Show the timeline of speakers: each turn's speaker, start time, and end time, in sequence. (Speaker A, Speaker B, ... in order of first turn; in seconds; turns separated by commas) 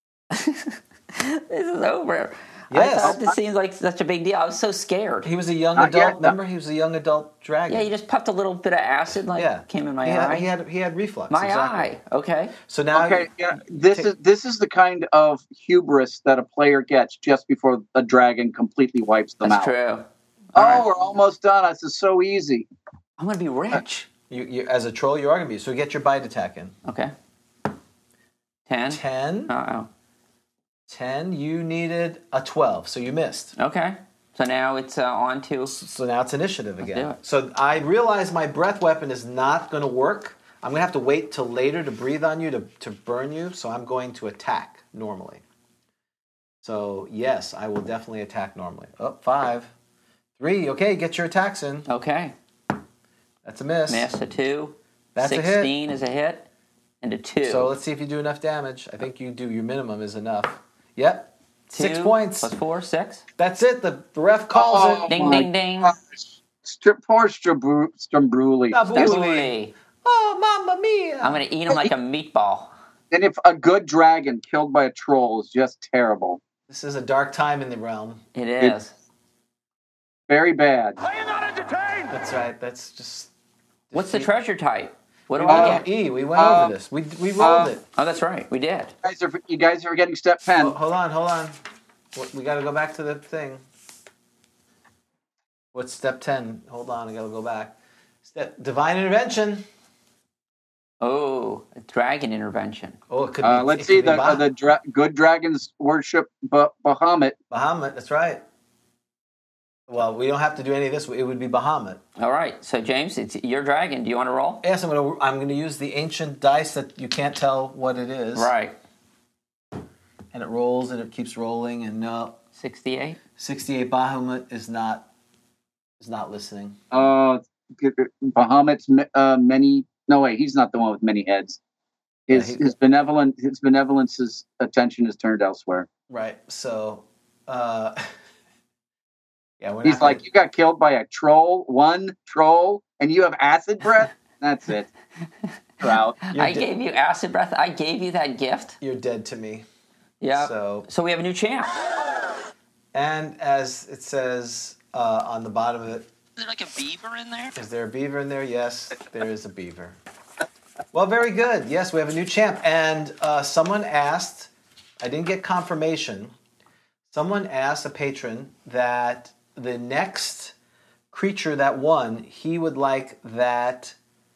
Speaker A: 0.3-5.3, Speaker B: 2.7-3.2, Speaker C: 3.0-3.4, Speaker B: 5.2-7.9, Speaker C: 5.8-6.3, Speaker A: 7.7-10.5, Speaker B: 9.3-11.9, Speaker A: 11.3-12.6, Speaker B: 12.7-13.3, Speaker C: 12.9-19.7, Speaker A: 19.4-20.9, Speaker C: 20.6-22.7, Speaker A: 23.2-24.1, Speaker B: 24.3-26.8, Speaker A: 26.9-27.1, Speaker A: 28.7-29.9, Speaker B: 28.9-29.5, Speaker B: 30.9-33.5, Speaker A: 33.6-35.8, Speaker B: 35.7-45.4, Speaker A: 36.8-37.2, Speaker B: 46.6-49.7, Speaker B: 50.4-51.9, Speaker A: 51.9-52.4, Speaker B: 53.4-54.1, Speaker A: 53.9-56.5, Speaker B: 55.1-55.7, Speaker A: 57.0-57.7, Speaker B: 57.4-62.5, Speaker A: 61.7-63.2, Speaker B: 63.4-65.5, Speaker C: 64.5-69.2, Speaker A: 65.1-65.9, Speaker B: 68.7-71.4, Speaker A: 68.9-69.7, Speaker A: 71.2-72.7, Speaker C: 73.1-76.4, Speaker B: 76.7-78.2, Speaker A: 78.3-78.9, Speaker C: 80.3-81.0, Speaker B: 82.1-83.3, Speaker B: 83.9-84.3, Speaker A: 83.9-85.8, Speaker B: 85.3-87.8, Speaker C: 85.5-85.8, Speaker C: 86.3-86.7, Speaker C: 87.4-87.8, Speaker A: 88.0-88.9, Speaker C: 89.0-90.8, Speaker B: 90.6-91.6, Speaker B: 92.1-93.6, Speaker B: 95.7-99.7, Speaker A: 101.0-103.0, Speaker B: 103.1-104.4, Speaker C: 103.4-107.3, Speaker B: 107.5-108.4, Speaker B: 109.9-112.0, Speaker A: 112.2-114.6, Speaker B: 114.6-118.5, Speaker A: 118.3-118.8, Speaker B: 120.3-122.4, Speaker A: 122.6-123.2, Speaker B: 123.4-125.1, Speaker B: 126.0-126.8, Speaker C: 126.9-131.6, Speaker C: 132.3-135.9, Speaker B: 132.3-132.6, Speaker B: 136.1-138.1, Speaker B: 139.6-140.2, Speaker C: 139.8-144.9, Speaker C: 145.8-146.2, Speaker A: 146.3-148.8, Speaker B: 146.3-146.7, Speaker B: 148.8-149.7, Speaker A: 150.2-151.8, Speaker B: 150.3-150.9, Speaker B: 152.9-156.1, Speaker A: 156.4-157.6, Speaker B: 157.6-160.0, Speaker B: 160.9-166.3, Speaker B: 167.1-170.6, Speaker B: 171.1-173.9